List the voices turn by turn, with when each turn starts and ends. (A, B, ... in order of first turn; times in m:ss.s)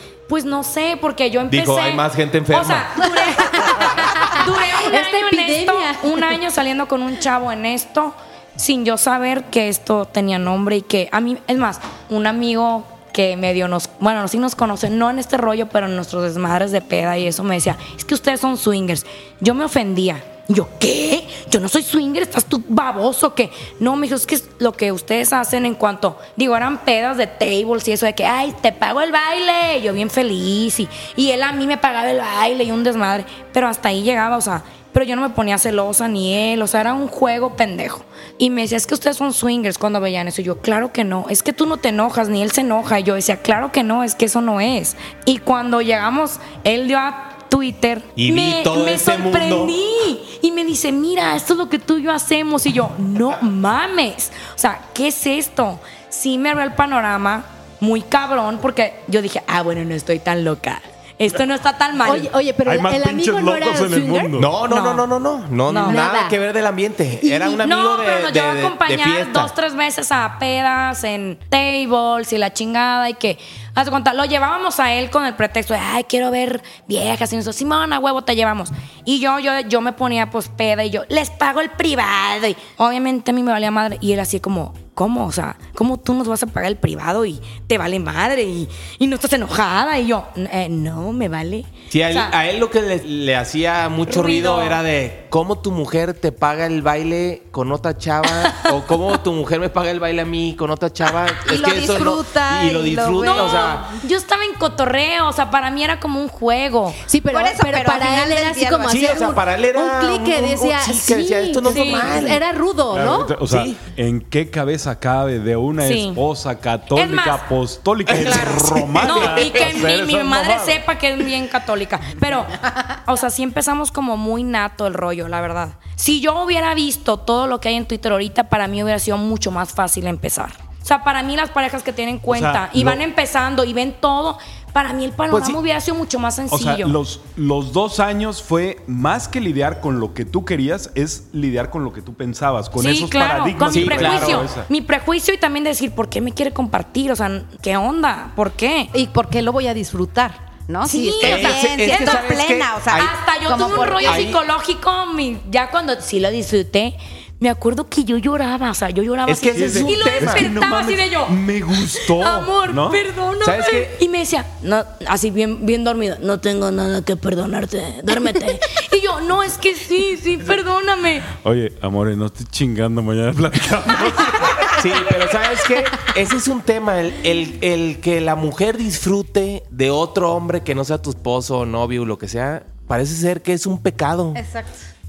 0:00.3-1:02.3 A
0:01.5-0:03.0 B
0:03.2-0:06.4 C
0:48.2-0:49.8 B
1:02.0-1:04.3 C
1:02.6-1:04.5 D
1:04.4-1:09.5 B
1:04.7-1:05.0 A
1:05.7-1:06.0 A
1:05.8-1:06.4 C
1:07.2-1:07.6 C
1:07.6-1:32.3 A
1:31.9-1:43.9 B
1:34.1-1:34.8 A
1:38.3-1:38.7 A
1:41.4-1:43.8 E
1:43.2-1:47.0 A
1:47.0-1:53.4 C
1:47.3-1:49.3 E
1:48.9-1:52.4 B
1:51.7-1:52.1 A
1:52.9-2:00.8 D
1:53.4-1:53.8 B
1:55.8-1:56.2 A
1:56.9-1:57.4 A
1:58.1-1:59.5 B
1:58.1-2:17.0 A
2:12.3-2:13.0 D
2:15.3-2:15.6 B
2:16.5-2:24.7 D
2:22.8-2:28.9 A
2:23.7-2:24.5 B
2:28.9-2:34.3 E
2:30.8-2:32.3 A
2:31.2-2:34.4 B
2:32.9-2:51.3 A
2:39.3-2:40.5 B
2:39.5-2:43.0 D
2:43.4-2:44.0 B
2:51.3-2:54.8 D
2:54.7-3:04.4 B
3:04.3-3:04.8 E